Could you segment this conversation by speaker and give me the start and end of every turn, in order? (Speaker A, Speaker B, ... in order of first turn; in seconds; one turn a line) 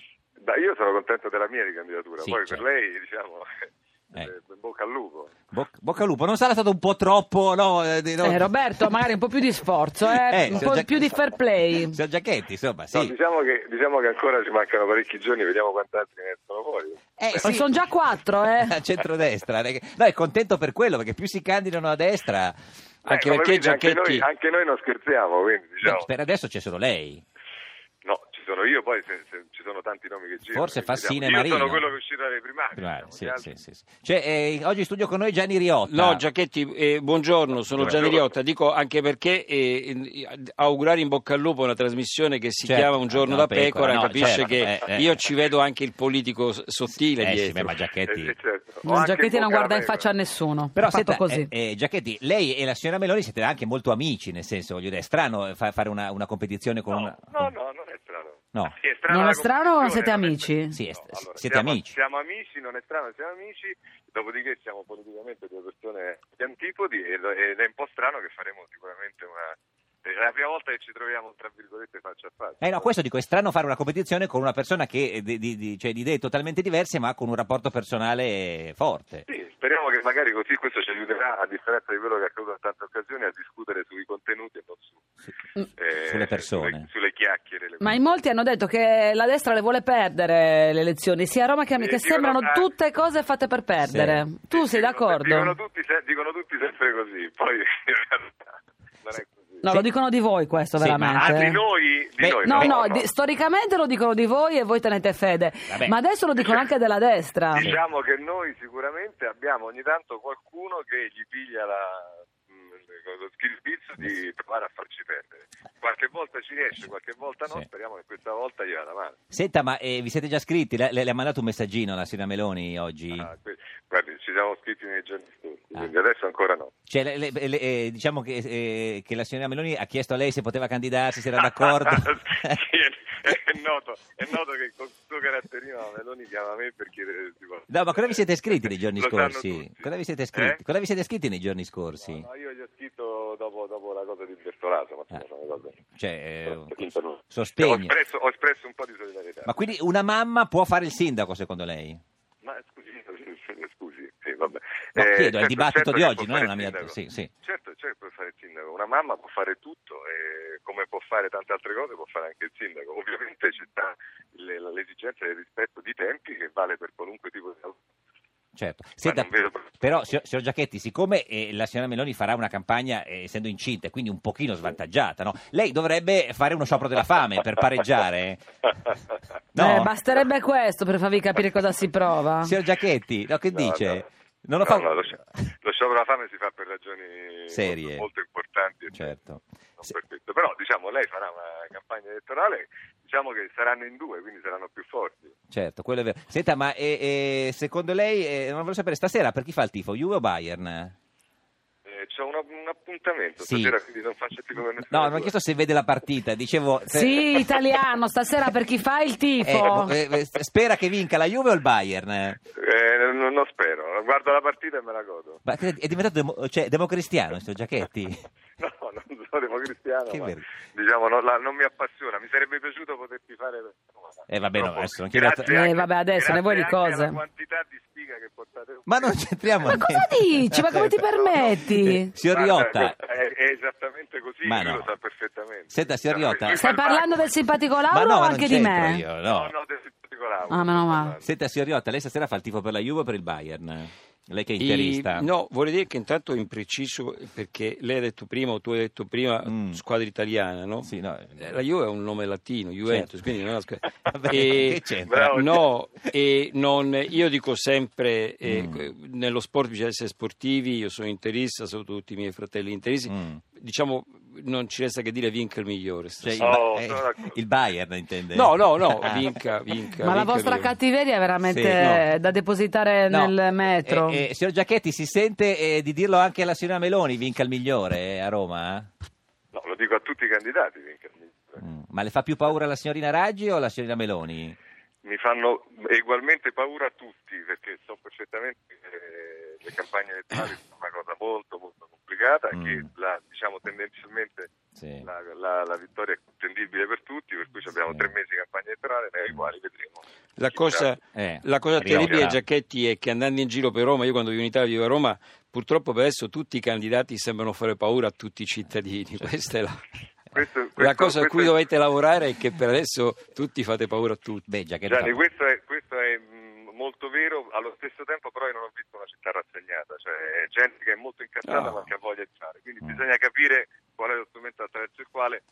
Speaker A: 0.4-3.5
Speaker B: 2.2-2.6
Speaker A: 4.2-5.3
Speaker B: 5.5-8.5
Speaker C: 8.2-12.0
Speaker B: 10.1-13.1
Speaker A: 12.9-17.6
Speaker B: 17.2-17.7
Speaker C: 17.4-18.8
Speaker B: 18.6-22.6
Speaker D: 23.1-24.3
Speaker A: 23.1-26.1
Speaker B: 25.8-27.2
Speaker A: 28.0-33.5
Speaker B: 30.5-31.9
Speaker B: 32.8-36.2
Speaker D: 35.9-47.7
Speaker B: 37.8-38.1
Speaker A: 37.8-38.3
Speaker B: 42.6-45.1
Speaker B: 47.2-48.3
Speaker A: 48.1-50.1
Speaker C: 48.8-51.5
Speaker B: 50.8-57.5
Speaker A: 56.9-72.9
Speaker C: 59.1-60.8
Speaker B: 60.7-61.9
Speaker B: 72.6-79.3
Speaker A: 79.3-85.0
Speaker A: 85.8-88.2
Speaker B: 86.0-86.9
Speaker C: 87.8-95.5
Speaker A: 91.8-92.7
Speaker B: 93.8-94.2
Speaker A: 94.5-98.4
Speaker A: 99.0-99.7
Speaker C: 99.6-101.6
Speaker B: 100.8-101.4
Speaker A: 101.2-103.1
Speaker B: 102.2-102.7
Speaker C: 102.4-107.7
Speaker B: 105.7-106.0
Speaker A: 106.4-106.7
Speaker A: 107.5-119.2
Speaker B: 119.3-123.3
Speaker A: 123.1-126.7
Speaker B: 126.9-132.6
Speaker A: 131.4-140.6
Speaker B: 137.7-142.2
Speaker A: 142.0-145.8
Speaker B: 145.9-147.9
Speaker A: 146.5-149.7
Speaker B: 149.4-152.0
Speaker A: 152.4-167.8
Speaker B: 155.0-157.3
Speaker B: 168.6-178.4
Speaker A: 169.0-169.8
Speaker B: 179.5-179.9
Speaker C: 179.6-182.6
Speaker B: 182.4-185.2
Speaker A: 183.5-184.1
Speaker A: 184.6-189.2
Speaker B: 187.5-188.1
Speaker B: 188.9-189.4
Speaker A: 189.8-195.3
Speaker B: 195.5-200.9
Speaker A: 201.9-205.3
Speaker B: 203.4-203.8
Speaker B: 204.9-207.4
Speaker C: 206.9-209.9
Speaker B: 209.4-212.4
Speaker A: 212.6-215.4
Speaker B: 215.4-218.2
Speaker A: 218.6-229.7
Speaker B: 220.1-220.5
Speaker B: 224.3-225.5
Speaker C: 225.4-227.2
Speaker B: 228.9-231.0
Speaker C: 229.6-232.1
Speaker A: 231.0-231.7
Speaker B: 231.7-233.0
Speaker A: 232.3-237.3
Speaker B: 234.4-234.9
Speaker B: 235.7-236.6
Speaker C: 236.5-239.1
Speaker B: 237.9-239.5
Speaker A: 239.2-241.3
Speaker C: 240.5-241.2
Speaker B: 241.2-245.3
Speaker D: 244.6-266.6
Speaker B: 249.5-249.8
Speaker B: 250.8-251.5
Speaker B: 252.9-253.1
Speaker B: 254.1-255.5
Speaker A: 255.1-255.6
Speaker B: 258.5-258.9
Speaker B: 263.1-263.4
Speaker B: 266.2-269.3
Speaker A: 266.4-267.4
Speaker D: 268.3-270.8
Speaker C: 270.0-274.2
Speaker B: 271.4-271.8
Speaker D: 271.8-272.1
Speaker B: 273.1-278.9
Speaker A: 279.5-281.6
Speaker B: 281.6-284.6
Speaker A: 285.1-300.9
Speaker B: 292.5-292.9
Speaker B: 294.8-295.1
Speaker D: 300.4-309.8
Speaker B: 301.1-302.4
Speaker A: 301.9-302.3
Speaker A: 310.3-311.6
Speaker D: 310.8-314.5
Speaker B: 314.5-315.2
Speaker A: 314.9-325.4
Speaker D: 321.4-321.8